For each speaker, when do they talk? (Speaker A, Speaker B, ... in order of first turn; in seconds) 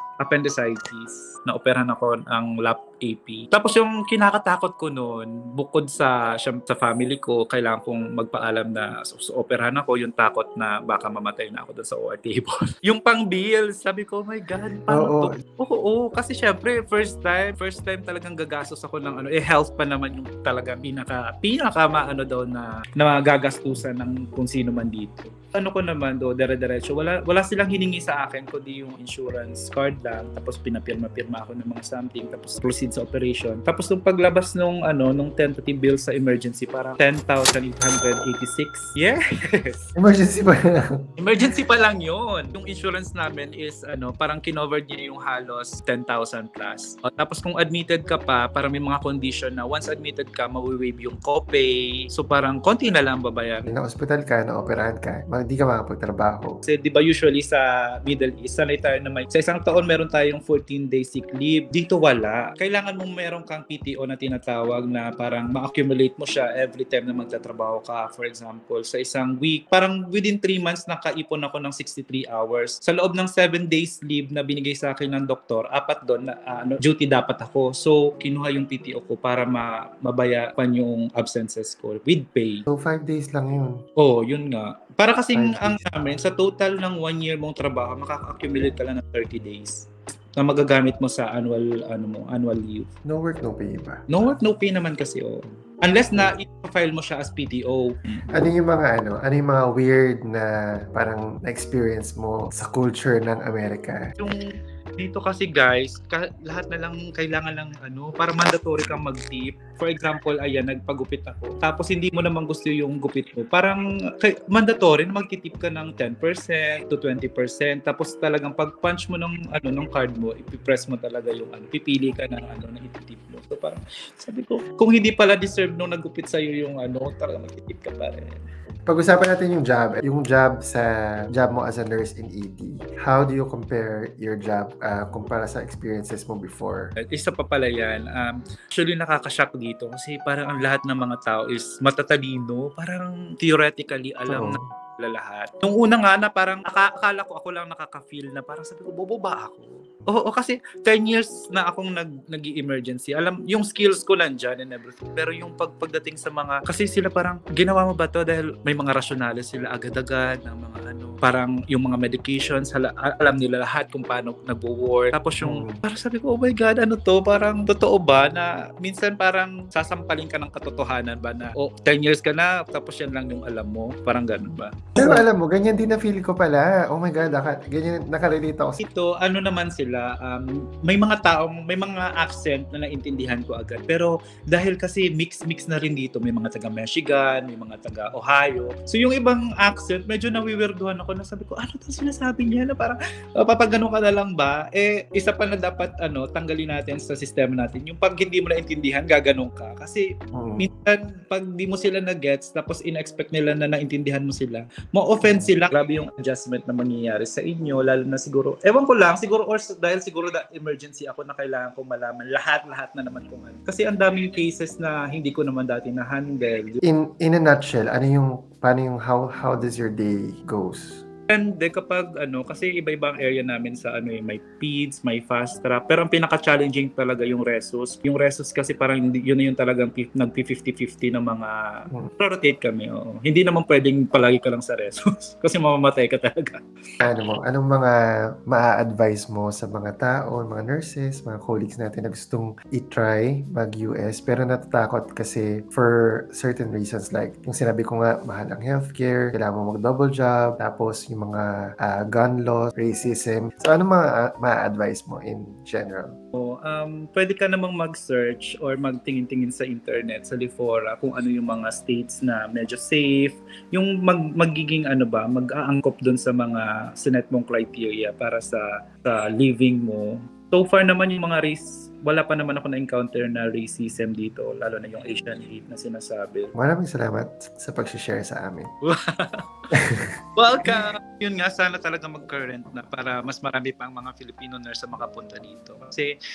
Speaker A: 0.2-39.9, 41.2-53.7, 56.6-82.6, 84.0-92.9, 94.1-98.2, 104.2-128.4, 136.9-175.2, 178.8-200.1, 200.6-216.8, 221.3-231.6, 232.1-236.6, 256.3-276.5, 278.8-279.4, 280.4-286.1
Speaker B: 14.9-15.4, 40.0-41.1, 53.7-56.6, 82.7-83.8, 85.3-85.8, 93.0-94.0, 98.3-104.1, 128.8-136.9, 144.3-144.6, 165.4-165.8, 175.0-178.8, 200.3-200.7, 216.8-221.0, 237.0-237.9, 238.5-256.2, 276.6-278.7, 279.8-280.1